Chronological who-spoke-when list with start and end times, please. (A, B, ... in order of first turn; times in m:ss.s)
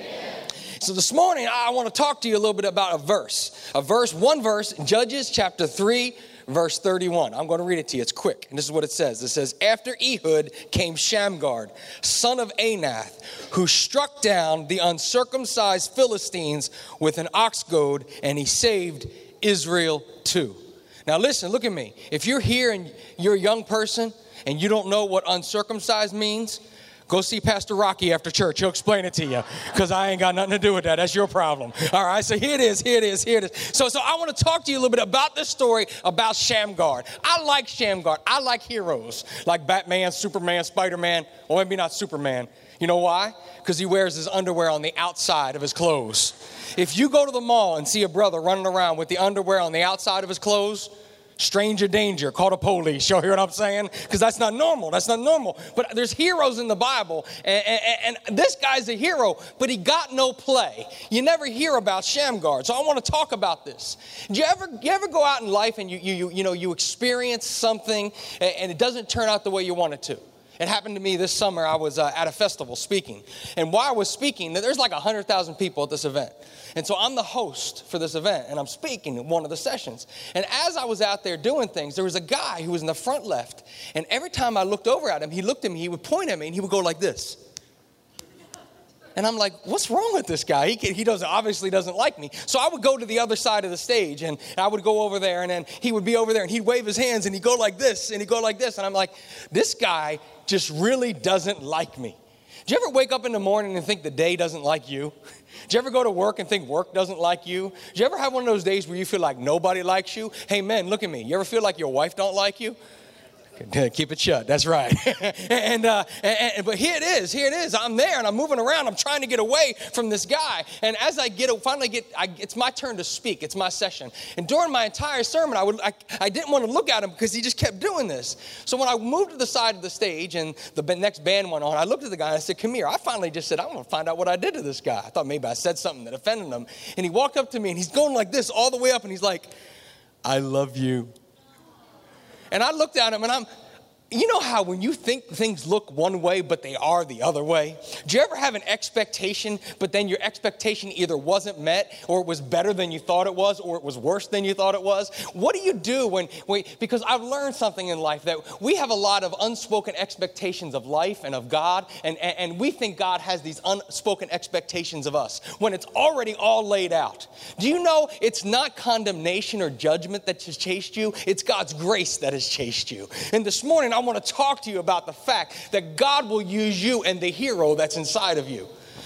0:00.8-1:27.4 A
1:29.2-1:45.1 A
1:45.7-1:52.8 A
1:53.6-2:19.5 A
2:20.2-2:21.1 A
2:22.5-2:23.5 A
2:24.1-2:58.7 A